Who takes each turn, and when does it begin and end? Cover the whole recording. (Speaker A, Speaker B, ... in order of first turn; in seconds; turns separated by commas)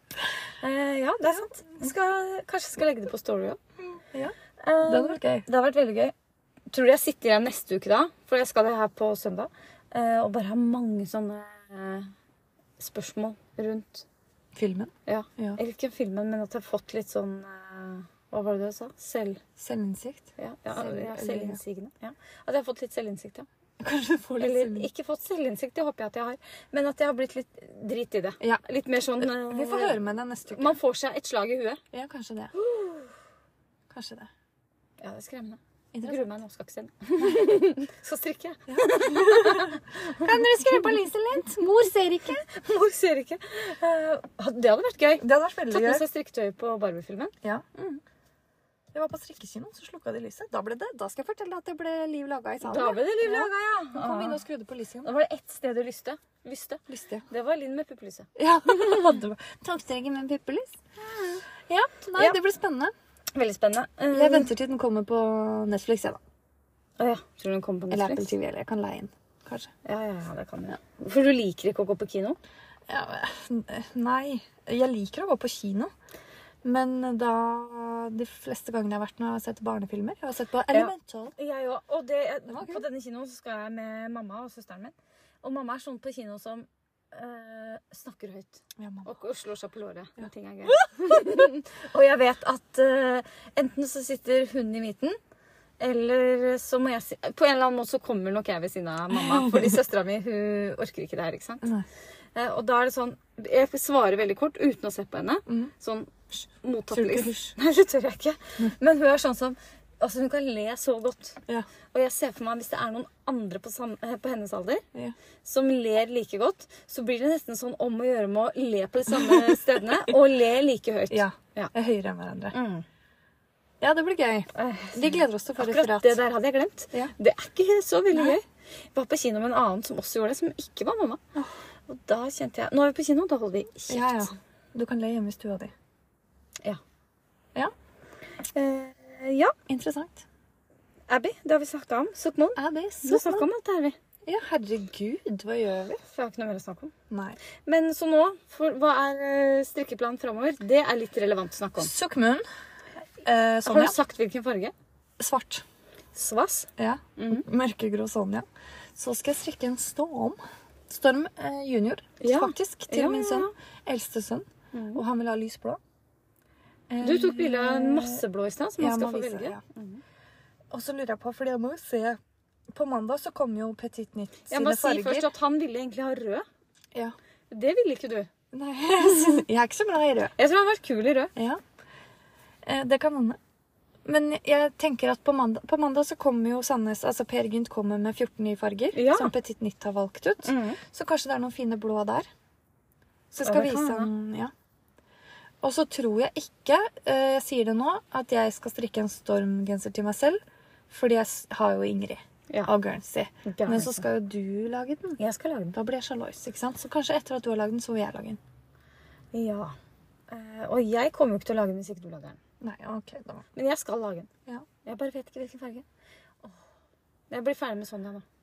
Speaker A: 0.6-3.6, Speaker B: 3.8-5.5, Speaker A: 4.6-6.1, Speaker A: 6.7-12.1, Speaker A: 12.8-14.1, Speaker B: 14.6-15.6, Speaker A: 15.1-19.4, Speaker B: 19.6-21.6, Speaker A: 20.4-23.5, Speaker B: 23.8-24.9, Speaker A: 24.4-31.8, Speaker B: 29.2-30.8, Speaker B: 31.9-32.5, Speaker A: 32.5-33.1, Speaker B: 33.9-34.3, Speaker A: 35.0-40.8, Speaker B: 35.9-36.3, Speaker B: 38.7-42.5, Speaker A: 42.4-48.0, Speaker B: 45.2-46.0, Speaker B: 48.9-55.1, Speaker A: 52.6-54.4, Speaker A: 55.0-59.1, Speaker B: 56.9-57.3, Speaker B: 58.4-60.8, Speaker A: 61.0-61.4, Speaker B: 61.7-62.9, Speaker A: 63.3-64.5, Speaker B: 64.1-66.2, Speaker A: 67.0-68.3, Speaker B: 67.9-69.7, Speaker A: 69.8-72.4, Speaker B: 72.9-75.9, Speaker B: 76.6-81.3, Speaker A: 80.7-95.2, Speaker B: 82.5-82.8, Speaker B: 88.8-89.1, Speaker B: 90.2-91.5, Speaker A: 95.8-101.7, Speaker B: 99.1-99.8, Speaker A: 102.3-111.4, Speaker B: 106.9-107.5, Speaker A: 111.9-114.8, Speaker A: 115.5-121.7, Speaker B: 119.1-120.1, Speaker B: 121.1-122.5, Speaker A: 122.5-122.8, Speaker B: 123.8-126.2, Speaker A: 124.5-131.2, Speaker A: 131.9-134.3, Speaker B: 133.9-135.7, Speaker A: 138.5-139.5, Speaker B: 139.7-140.2, Speaker A: 141.1-144.0, Speaker B: 142.6-143.5, Speaker B: 144.3-146.0, Speaker A: 146.1-146.9, Speaker B: 147.1-147.4, Speaker A: 147.6-151.9, Speaker B: 151.8-152.4, Speaker B: 153.2-153.9, Speaker A: 153.6-154.7, Speaker B: 155.2-155.6, Speaker A: 156.1-157.5, Speaker B: 156.8-158.4, Speaker B: 159.0-160.4, Speaker B: 160.9-165.8, Speaker A: 162.2-163.5, Speaker A: 164.7-165.0, Speaker B: 166.9-168.2, Speaker A: 167.0-170.0, Speaker B: 168.8-169.6, Speaker B: 170.7-172.2, Speaker B: 172.7-175.3, Speaker A: 174.5-176.5, Speaker A: 177.5-178.3, Speaker B: 178.5-180.3, Speaker A: 180.4-181.3, Speaker B: 181.4-181.6, Speaker B: 182.6-183.4, Speaker B: 184.1-192.3, Speaker A: 188.9-189.3, Speaker A: 190.4-190.8, Speaker B: 193.3-194.5, Speaker A: 193.4-194.1, Speaker B: 195.6-200.4, Speaker B: 200.9-205.2, Speaker A: 203.4-204.1, Speaker A: 205.2-205.8, Speaker B: 205.7-208.4, Speaker A: 209.3-209.8, Speaker A: 210.3-212.4, Speaker B: 212.6-213.4, Speaker A: 213.6-214.3, Speaker A: 214.8-215.8, Speaker A: 217.3-218.2